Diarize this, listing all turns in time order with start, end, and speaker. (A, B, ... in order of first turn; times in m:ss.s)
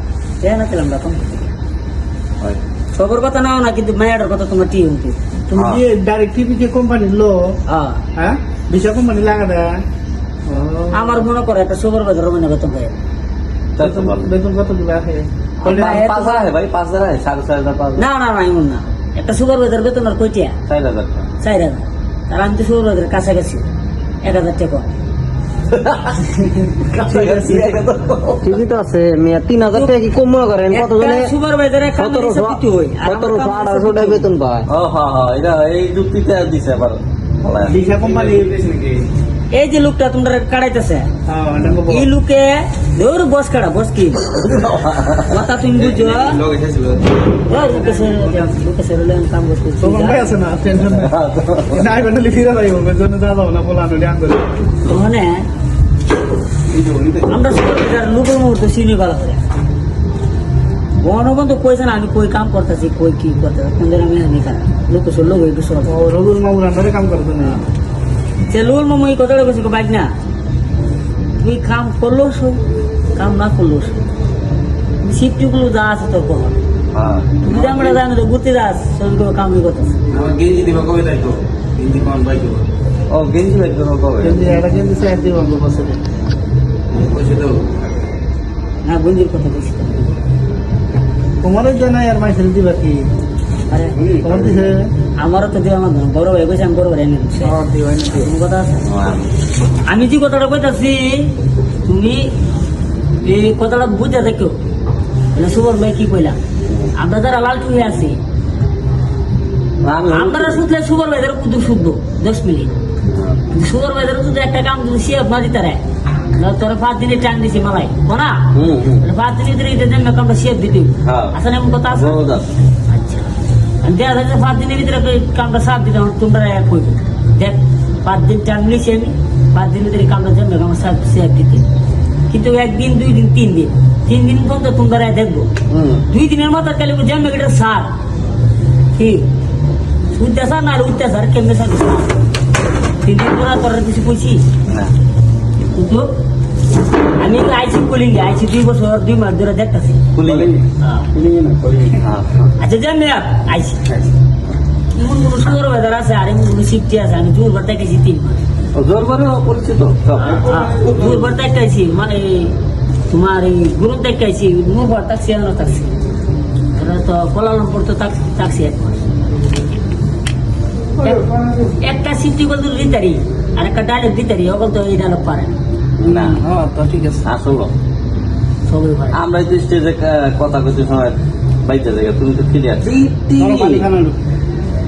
0:00.4-0:01.5 A
0:03.0-0:05.2 A
0:05.5-0:07.5 B
0:05.5-0:05.8 C
0:07.7-0:08.0 A
0:08.2-0:09.8 B
0:10.5-0:11.3 B
0:10.9-0:12.9 A
0:13.8-0:14.3 C
0:13.8-0:16.0 B
0:15.6-0:16.5 A
0:15.6-0:18.1 C
0:18.0-0:20.6 A
0:20.7-0:21.3 C
0:21.4-0:23.7 A
0:24.2-0:24.9 A
0:25.7-0:26.3 C
0:26.7-0:27.8 B
0:26.9-0:28.6 C
0:28.4-0:31.3 D
0:29.7-0:30.0 A
0:30.7-0:34.3 A
0:32.0-0:34.7 D
0:34.7-0:37.8 C
0:37.6-0:38.6 B
0:38.0-0:39.1 E
0:39.5-0:41.1 A
0:41.3-0:42.1 B
0:41.9-0:44.3 A
0:44.4-0:45.4 C
0:45.3-0:46.4 A
0:45.9-0:47.2 E
0:46.5-0:46.8 C
0:47.5-0:50.4 A
0:47.5-0:48.5 B
0:49.8-0:51.2 B
0:50.8-0:51.9 C
0:51.7-0:54.4 B
0:54.9-0:55.5 A
0:57.3-0:59.5 A
1:01.0-1:06.0 A
1:05.9-1:07.6 B
1:08.5-1:10.1 A
1:11.4-1:12.6 A
1:13.2-1:14.0 A
1:15.0-1:16.6 A
1:16.9-1:17.5 C
1:17.4-1:20.0 A
1:17.5-1:18.0 B
1:20.1-1:22.6 E
1:20.1-1:22.0 C
1:23.1-1:24.5 C
1:24.2-1:26.0 B
1:26.9-1:27.7 E
1:27.1-1:27.4 C
1:28.8-1:30.1 A
1:31.4-1:33.1 B
1:33.7-1:34.0 A
1:34.0-1:34.3 C
1:34.2-1:34.9 B
1:35.2-1:37.6 A
1:37.4-1:38.3 B
1:38.2-1:38.9 A
1:38.9-1:39.3 C
1:39.9-1:41.3 A
1:41.9-1:42.3 A
1:43.2-1:44.6 A
1:45.3-1:46.4 A
1:47.0-1:48.2 A
1:49.8-1:50.6 C
1:50.1-1:52.8 A
1:53.1-1:53.4 C
1:53.5-1:55.8 A
1:56.4-1:58.4 A
1:58.6-1:59.0 C
1:59.0-2:03.3 A
2:01.0-2:01.4 C
2:01.9-2:02.5 C
2:03.8-2:11.6 A
2:12.3-2:15.5 A
2:15.7-2:16.0 C
2:16.1-2:17.9 A
2:19.0-2:19.3 A
2:20.1-2:22.1 A
2:23.0-2:24.4 A
2:25.7-2:26.1 A
2:27.2-2:30.1 A
2:30.2-2:30.6 C
2:30.8-2:31.1 A
2:31.1-2:32.0 B
2:32.0-2:32.5 C
2:32.6-2:33.8 A
2:35.0-2:38.4 A
2:38.8-2:41.2 C
2:40.2-2:42.6 A
2:43.1-2:45.9 A
2:46.8-2:49.0 A
2:51.0-2:51.4 B
2:51.8-2:55.5 A
2:56.0-2:56.4 C
2:56.1-2:57.2 B
2:57.2-2:57.7 C
2:58.7-2:59.2 A
2:59.1-3:03.8 C
3:03.4-3:04.2 B